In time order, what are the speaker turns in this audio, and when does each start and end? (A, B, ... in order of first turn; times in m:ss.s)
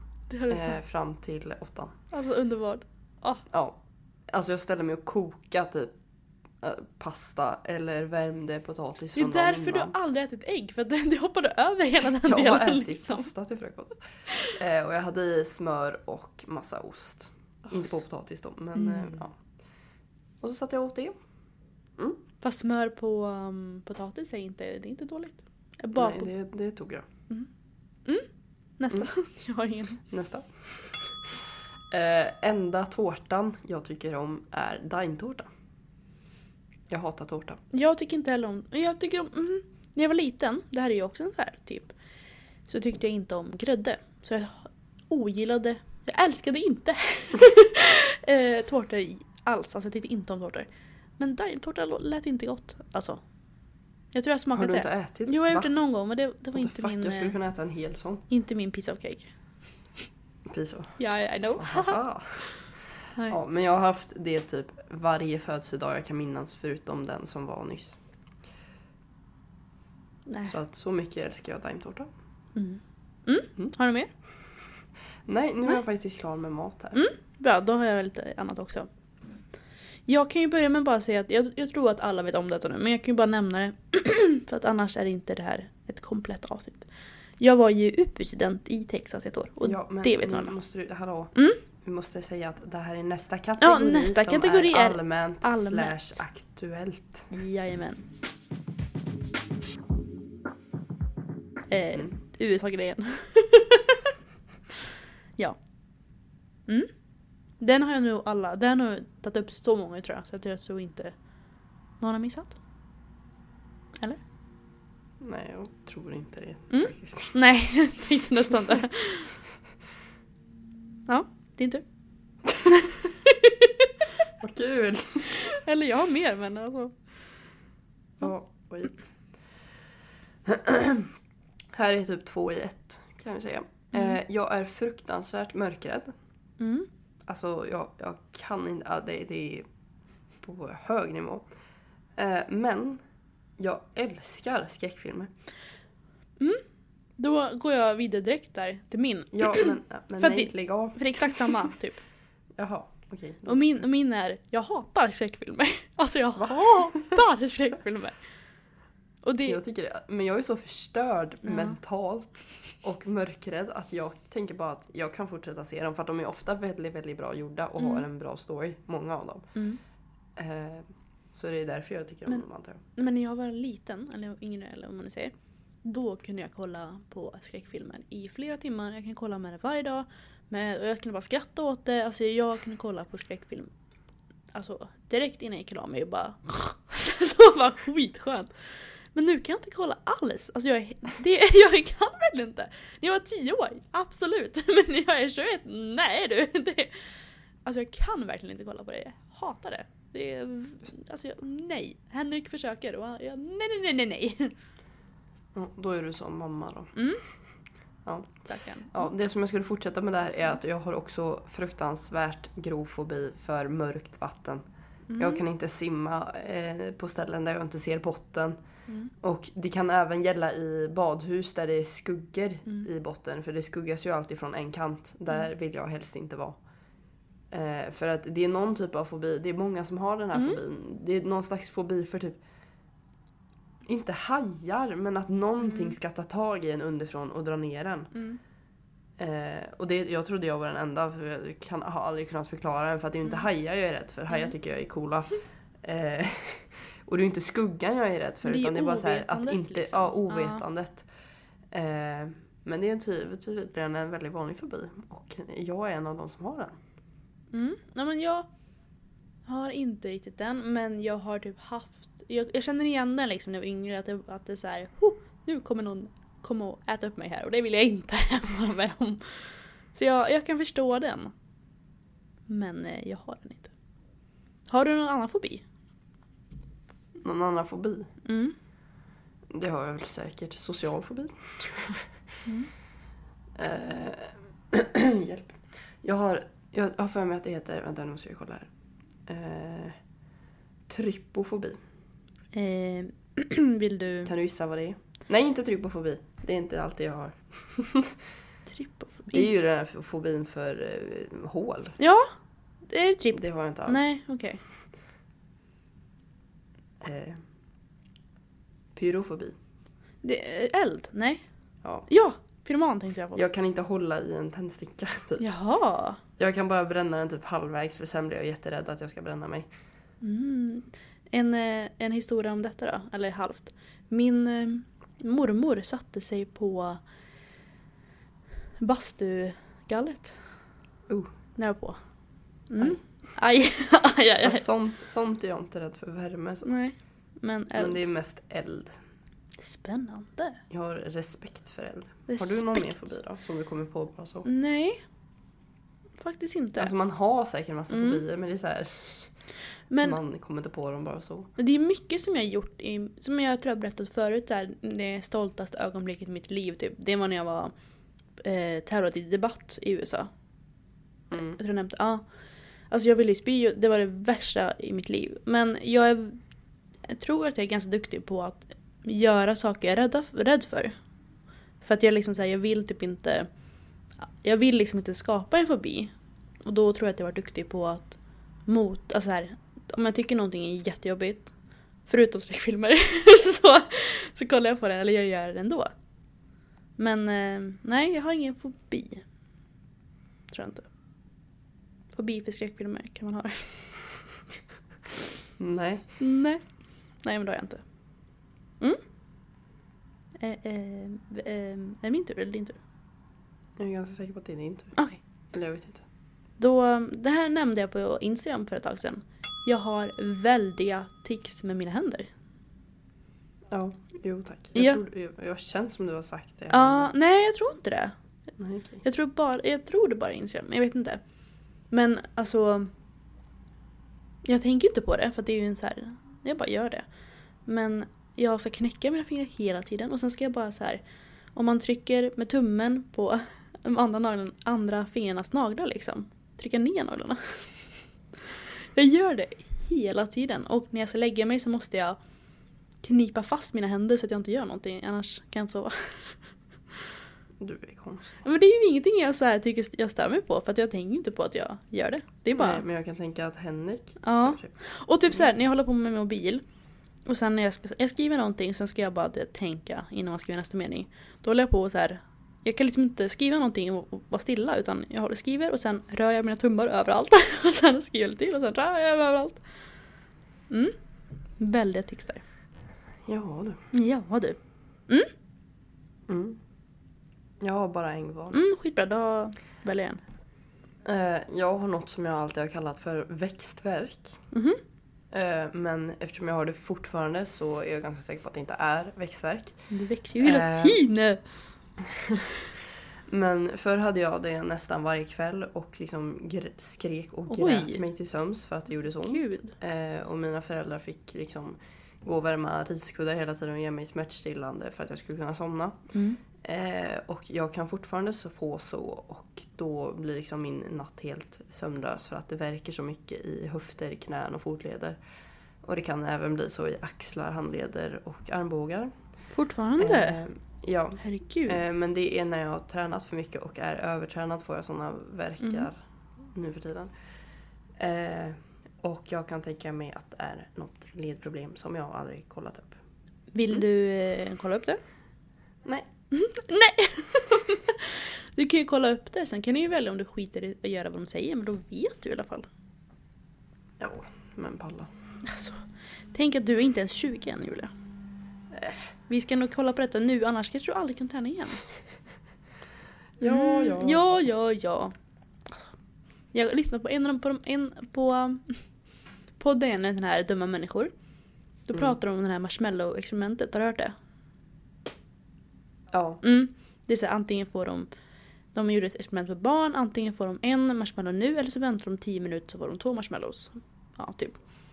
0:00.3-0:00.8 A
0:00.5-0:02.0 B
0:02.1-0:03.4 A
0:03.5-0:05.9 B
0:06.6-0:09.9 B
0:09.1-0:13.3 A
0:12.2-0:19.4 B
0:18.8-0:19.2 A
0:20.4-0:21.2 B
0:22.4-0:26.3 A
0:25.9-0:27.0 B
0:28.8-0:30.0 A
0:30.1-0:31.4 B
0:31.9-0:35.5 B
0:36.9-0:37.6 B
0:37.7-0:41.9 A
0:42.7-0:50.7 A
0:51.2-0:53.2 A
0:54.1-0:57.3 A
0:54.5-0:55.7 B
0:56.5-0:58.2 B
0:58.3-0:59.3 A
1:00.4-1:01.0 B
1:01.0-1:02.0 A
1:01.6-1:02.5 B
1:03.3-1:08.0 B
1:10.3-1:10.5 A
1:10.5-1:12.1 B
1:12.6-1:14.1 A
1:15.2-1:17.0 B
1:16.9-1:18.9 A
1:20.1-1:26.9 A
1:27.4-1:30.5 A
1:29.6-1:37.3 B
1:31.3-1:31.6 A
1:33.6-1:36.2 A
1:37.3-1:38.0 A
1:41.7-1:44.1 A
1:47.6-1:51.1 A
1:52.0-1:52.6 A
1:55.2-1:57.4 B
1:56.7-1:59.3 A
2:01.1-2:01.8 A
2:02.6-2:03.9 A
2:04.4-2:05.3 B
2:05.3-2:06.9 A
2:08.2-2:09.0 B
2:10.4-2:11.1 B
2:11.7-2:16.1 B
2:13.9-2:14.2 A
2:16.6-2:16.9 A
2:17.2-2:19.7 B
2:20.4-2:21.4 B
2:22.2-2:23.0 B
2:23.6-2:25.3 B
2:27.2-2:32.0 A
2:29.3-2:31.7 B
2:32.6-2:33.6 B
2:33.4-2:38.2 A
2:36.4-2:37.1 B
2:39.2-2:39.6 A
2:39.4-2:49.5 B
2:41.4-2:41.8 A
2:50.4-2:52.8 B
2:53.0-2:55.3 A
2:55.8-3:03.7 A
3:04.5-3:08.5 A
3:09.1-3:16.9 A
3:17.6-3:24.5 A
3:25.5-3:26.9 B
3:26.9-3:27.2 A
3:28.0-3:34.6 B
3:28.5-3:29.1 A
3:35.1-3:35.4 A
3:35.2-3:38.6 B
3:39.2-3:46.6 B
3:47.5-3:52.4 B
3:50.3-3:50.6 A
3:53.8-3:58.1 B
3:58.1-3:58.4 A
3:59.2-4:11.1 B
4:08.4-4:10.6 A
4:11.7-4:16.8 B
4:17.5-4:18.5 A
4:19.5-4:31.3 A
4:32.5-4:33.7 A
4:34.7-4:35.6 A
4:37.2-4:38.1 B
4:38.2-4:38.5 A
4:39.5-4:42.1 B
4:42.4-4:42.7 A
4:43.6-4:48.7 B
4:49.2-4:50.0 B
4:50.9-4:51.8 B
4:52.5-4:54.3 A
4:54.2-4:58.2 B
4:58.7-4:59.5 A
4:59.3-5:02.0 B
5:02.0-5:02.3 A
5:02.9-5:04.6 A
5:03.3-5:04.1 B
5:07.0-5:07.4 B
5:08.9-5:09.6 B
5:10.2-5:11.4 A
5:12.1-5:13.4 A
5:13.3-5:15.4 B
5:15.4-5:16.2 A
5:16.4-5:19.7 B
5:20.2-5:27.0 A
5:28.8-5:30.3 A
5:31.6-5:32.0 A
5:32.7-5:34.6 A
5:34.4-5:36.7 B
5:36.6-5:38.0 A
5:37.8-5:39.0 B
5:39.6-5:40.6 A
5:40.7-5:44.4 B
5:42.3-5:43.0 A
5:44.4-5:45.0 A
5:46.2-5:46.9 A
5:46.8-5:49.3 B
5:47.9-5:48.2 A
5:49.9-5:50.2 A
5:50.0-5:51.5 B
5:51.6-5:57.7 A
5:58.4-6:00.3 A
6:01.3-6:01.6 B
6:01.3-6:02.2 A
6:02.9-6:06.4 A
6:07.1-6:10.9 A
6:11.8-6:13.5 A
6:14.4-6:16.1 A
6:16.6-6:21.5 A
6:22.0-6:25.9 A
6:27.0-6:29.2 A
6:30.5-6:30.9 A
6:32.1-6:33.9 A
6:35.6-6:36.1 B
6:36.2-6:36.6 A
6:37.2-6:37.8 A
6:40.4-6:42.8 A
6:43.8-6:45.0 B
6:45.0-6:45.2 A
6:45.5-6:46.0 B
6:46.6-6:52.3 A
6:53.7-6:57.1 B
6:54.7-6:55.0 A
6:56.7-6:58.1 A
6:58.6-6:59.0 B
6:59.0-7:01.2 A
7:01.9-7:02.9 A
7:04.4-7:07.0 A
7:07.6-7:11.0 A
7:11.5-7:17.6 A
7:18.9-7:22.2 A
7:23.0-7:26.4 A
7:27.6-7:28.4 B
7:28.4-7:32.8 A
7:32.5-7:34.7 B
7:34.2-7:36.6 A
7:37.2-7:49.6 A
7:50.7-7:51.0 A
7:51.6-7:52.4 A
7:53.2-7:53.8 B
7:53.9-7:54.6 A
7:56.3-7:56.6 B
7:57.6-7:58.6 B
7:58.5-8:00.2 A
8:01.0-8:04.4 B
8:04.5-8:04.8 A
8:05.3-8:09.8 B
8:09.9-8:11.4 A
8:10.4-8:11.0 B
8:12.1-8:12.4 B
8:13.3-8:26.0 B
8:17.5-8:18.0 A
8:19.2-8:19.7 A
8:26.1-8:26.4 A
8:26.6-8:35.2 B
8:35.8-8:39.1 B
8:39.5-8:40.4 A
8:40.0-8:47.1 B
8:41.2-8:41.8 A
8:45.6-8:45.9 A
8:48.0-8:53.0 B
8:53.5-8:55.0 A
8:56.3-9:02.6 A
9:04.0-9:05.1 B
9:05.4-9:05.8 A
9:06.3-9:07.9 A
9:08.7-9:09.0 B
9:09.3-9:11.8 A
9:13.4-9:14.2 B
9:13.4-9:15.1 A
9:16.5-9:18.8 A
9:19.6-9:21.1 A
9:21.9-9:24.1 A
9:26.1-9:26.4 B
9:26.4-9:28.1 A
9:28.7-9:34.6 A